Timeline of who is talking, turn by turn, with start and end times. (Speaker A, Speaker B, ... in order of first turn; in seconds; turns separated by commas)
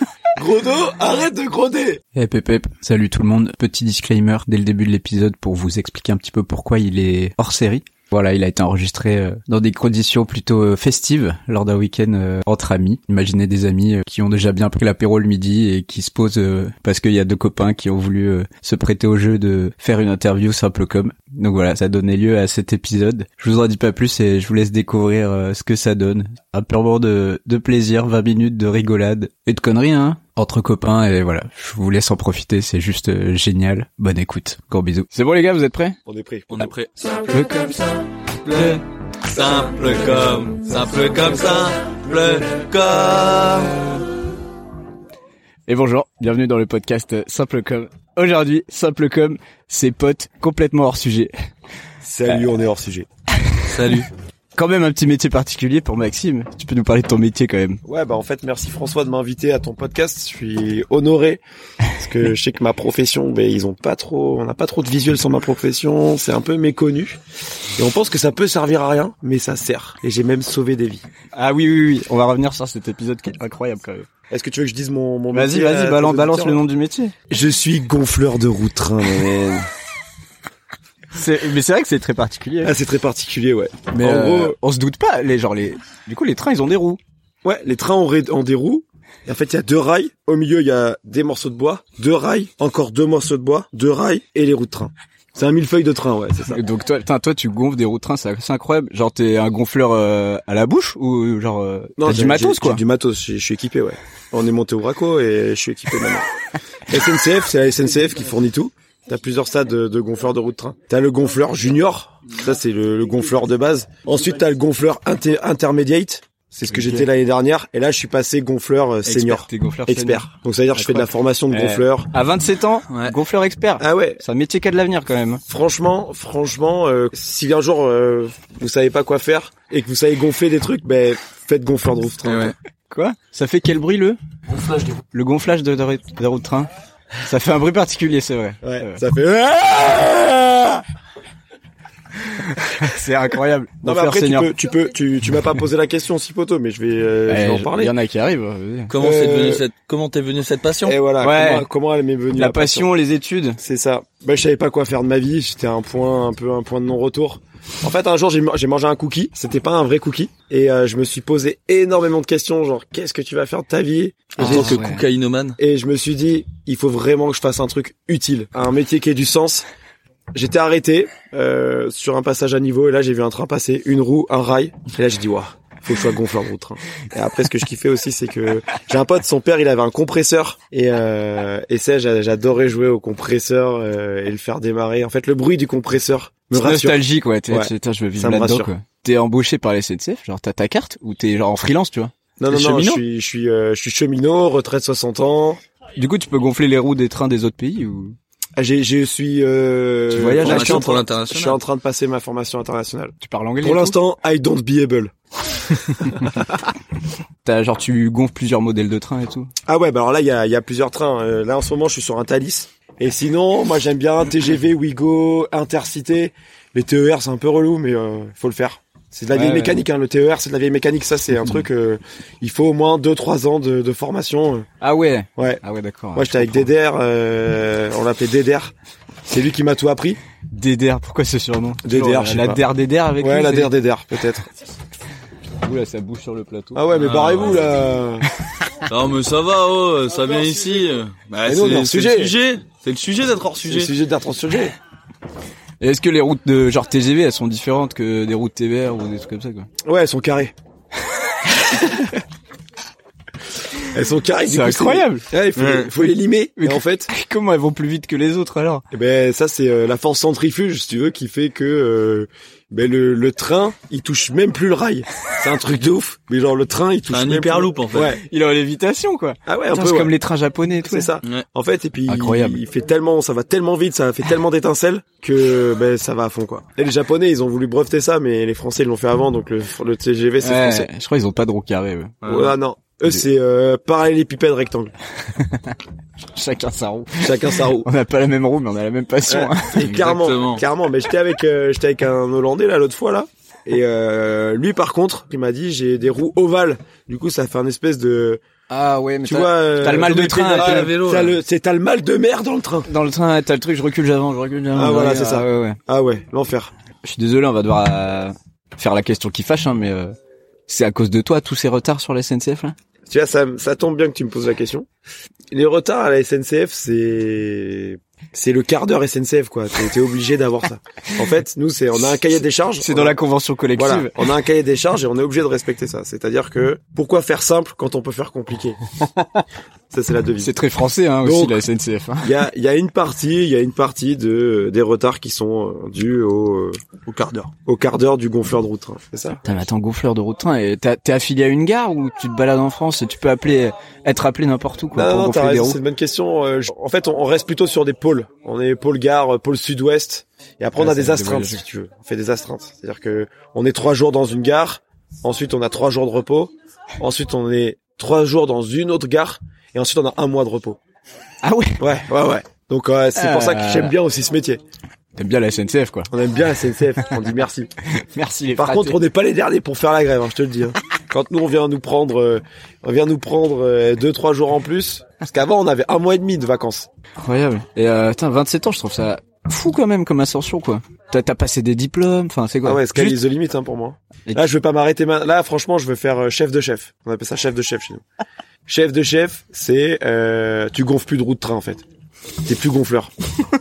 Speaker A: 0.3-2.0, Speaker B: 2.1-36.0, Speaker A: 36.0-36.6, Speaker C: 36.5-37.4, Speaker B: 37.3-38.8, Speaker C: 39.3-43.8, Speaker A: 39.3-42.5, Speaker B: 45.7-51.3, Speaker A: 52.0-53.1, Speaker C: 53.7-54.1, Speaker B: 54.5-57.8, Speaker A: 57.8-61.4, Speaker A: 62.0-67.2, Speaker A: 67.8-71.0, Speaker B: 71.3-74.1, Speaker A: 74.3-76.6, Speaker B: 75.3-77.1, Speaker A: 77.3-79.6, Speaker B: 81.1-82.7, Speaker A: 82.6-84.5, Speaker B: 83.9-87.0, Speaker A: 87.4-96.6, Speaker B: 96.5-102.8, Speaker A: 102.0-106.2, Speaker A: 106.9-122.1, Speaker B: 116.7-117.0, Speaker B: 119.0-125.4, Speaker A: 123.8-124.2, Speaker A: 125.5-132.5, Speaker C: 132.2-132.5, Speaker B: 132.9-134.2, Speaker B: 135.1-136.7, Speaker B: 137.2-139.0, Speaker A: 138.6-140.8, Speaker B: 142.6-144.5, Speaker A: 143.8-147.9, Speaker B: 147.3-148.9, Speaker C: 148.9-150.9, Speaker A: 149.0-149.6, Speaker A: 150.8-152.9, Speaker B: 151.2-151.7, Speaker B: 152.4-153.6, Speaker A: 153.6-164.9, Speaker C: 164.3-165.6, Speaker B: 164.4-165.0, Speaker A: 165.6-169.7, Speaker A: 170.3-188.7, Speaker B: 186.5-193.0, Speaker A: 192.4-195.6, Speaker B: 196.0-198.2, Speaker A: 198.6-206.4, Speaker B: 200.1-200.9, Speaker C: 200.4-201.6, Speaker B: 203.2-204.0, Speaker B: 207.4-209.5, Speaker A: 209.7-224.7, Speaker B: 219.3-219.8, Speaker B: 224.8-226.7, Speaker A: 225.4-225.6, Speaker A: 226.1-228.7, Speaker A: 229.2-230.2, Speaker B: 230.5-233.7, Speaker A: 231.8-232.6, Speaker A: 233.2-234.5, Speaker B: 235.6-236.8, Speaker A: 236.7-238.3, Speaker C: 236.9-237.7, Speaker C: 238.9-243.9, Speaker A: 241.4-242.3, Speaker A: 243.7-244.7, Speaker B: 245.8-249.7, Speaker A: 249.8-250.5, Speaker A: 253.9-257.1, Speaker B: 254.4-255.3, Speaker C: 255.6-255.9, Speaker B: 256.6-258.8, Speaker A: 258.9-268.2, Speaker C: 267.1-268.1, Speaker B: 268.2-271.1, Speaker A: 269.4-270.1, Speaker A: 270.8-280.9, Speaker B: 272.1-272.6, Speaker B: 280.4-282.1, Speaker C: 282.2-282.6, Speaker A: 282.2-284.9, Speaker B: 285.4-285.7, Speaker B: 286.3-290.1, Speaker A: 287.2-287.9, Speaker A: 289.3-298.4, Speaker C: 289.9-290.6, Speaker B: 298.7-300.9, Speaker A: 299.2-302.9, Speaker C: 299.9-301.4, Speaker B: 302.9-305.8, Speaker A: 304.7-306.7, Speaker B: 307.0-310.1, Speaker B: 310.7-312.7, Speaker A: 313.1-314.9, Speaker A: 315.5-323.2, Speaker B: 322.8-324.1, Speaker A: 323.7-328.8, Speaker A: 329.9-330.6, Speaker B: 330.4-332.3, Speaker A: 331.2-331.6, Speaker A: 332.2-336.8, Speaker C: 337.1-337.5, Speaker A: 337.6-339.4, Speaker B: 339.4-345.8, Speaker A: 344.9-360.8, Speaker B: 350.8-351.6, Speaker B: 361.4-361.8, Speaker A: 361.8-364.6, Speaker B: 363.1-363.9, Speaker B: 365.1-366.1, Speaker A: 366.1-367.7, Speaker B: 367.9-369.0, Speaker A: 368.6-376.9, Speaker B: 377.2-383.2, Speaker A: 382.6-388.0, Speaker A: 388.7-391.8, Speaker A: 392.4-393.1